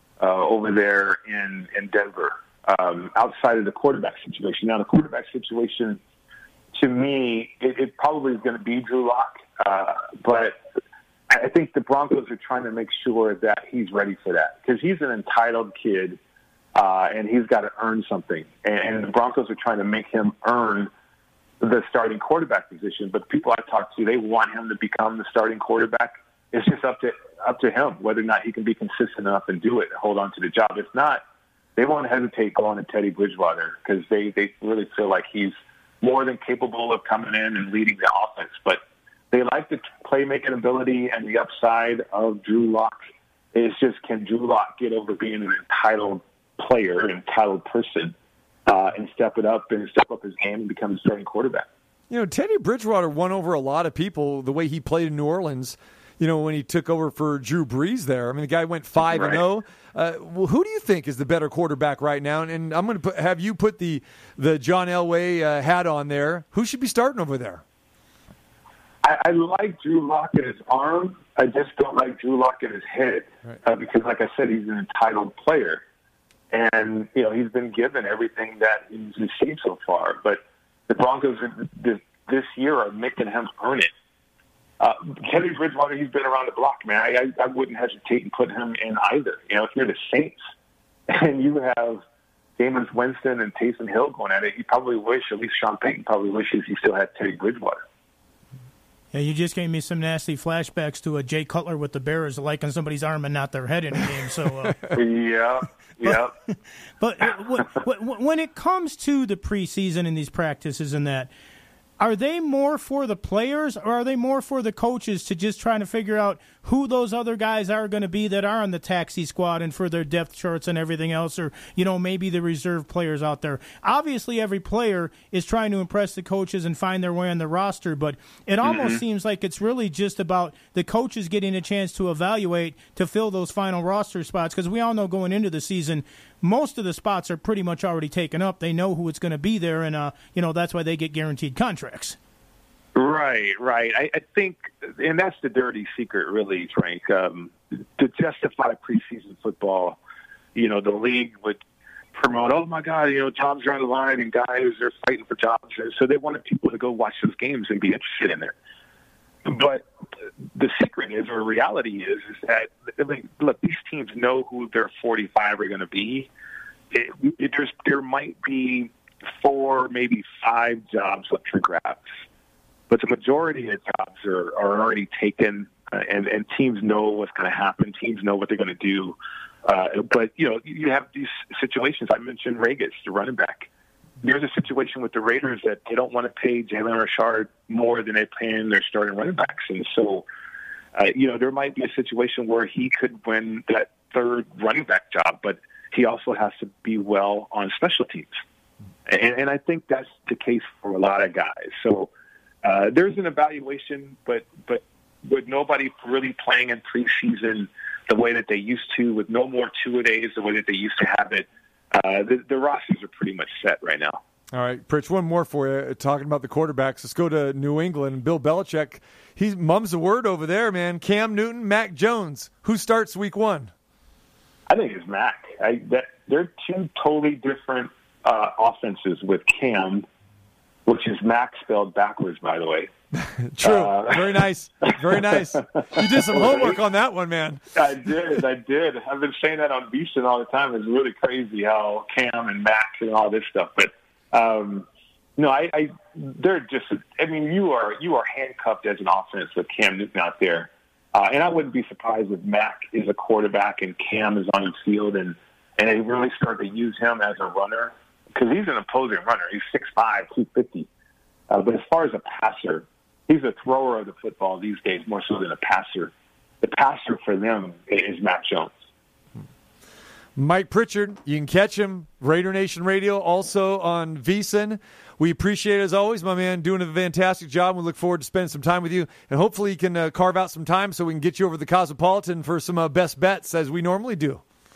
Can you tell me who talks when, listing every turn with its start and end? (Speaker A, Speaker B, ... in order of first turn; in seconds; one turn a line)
Speaker A: 0.2-6.0
Speaker A: 6.7-10.6
Speaker A: 11.3-16.2
Speaker A: 16.7-20.9
Speaker A: 21.6-31.2
Speaker A: 31.8-43.0
Speaker A: 43.5-48.1
Speaker A: 48.6-51.7
Speaker B: 52.1-67.6
Speaker A: 59.1-59.4
Speaker A: 69.0-75.8
Speaker A: 76.5-83.9
Speaker A: 84.8-90.4
Speaker A: 91.1-92.0
Speaker A: 92.6-97.8
Speaker C: 99.1-104.8
Speaker A: 104.9-106.3
Speaker C: 107.0-111.3
Speaker C: 112.0-142.2
Speaker A: 128.6-129.0
Speaker A: 142.9-150.0
Speaker A: 150.5-151.6
Speaker A: 152.1-158.5
Speaker A: 159.4-159.9
Speaker A: 160.5-166.3
Speaker A: 166.9-172.1
Speaker A: 172.9-183.7
Speaker A: 184.2-190.2
Speaker A: 190.9-198.4
Speaker A: 199.1-202.1
Speaker A: 202.6-214.2
Speaker B: 214.5-223.7
Speaker A: 224.7-230.1
Speaker A: 230.8-232.9
Speaker B: 233.1-238.4
Speaker A: 233.6-234.4
Speaker A: 235.3-236.8
Speaker A: 237.7-260.9
Speaker A: 261.5-268.7
Speaker B: 270.4-284.4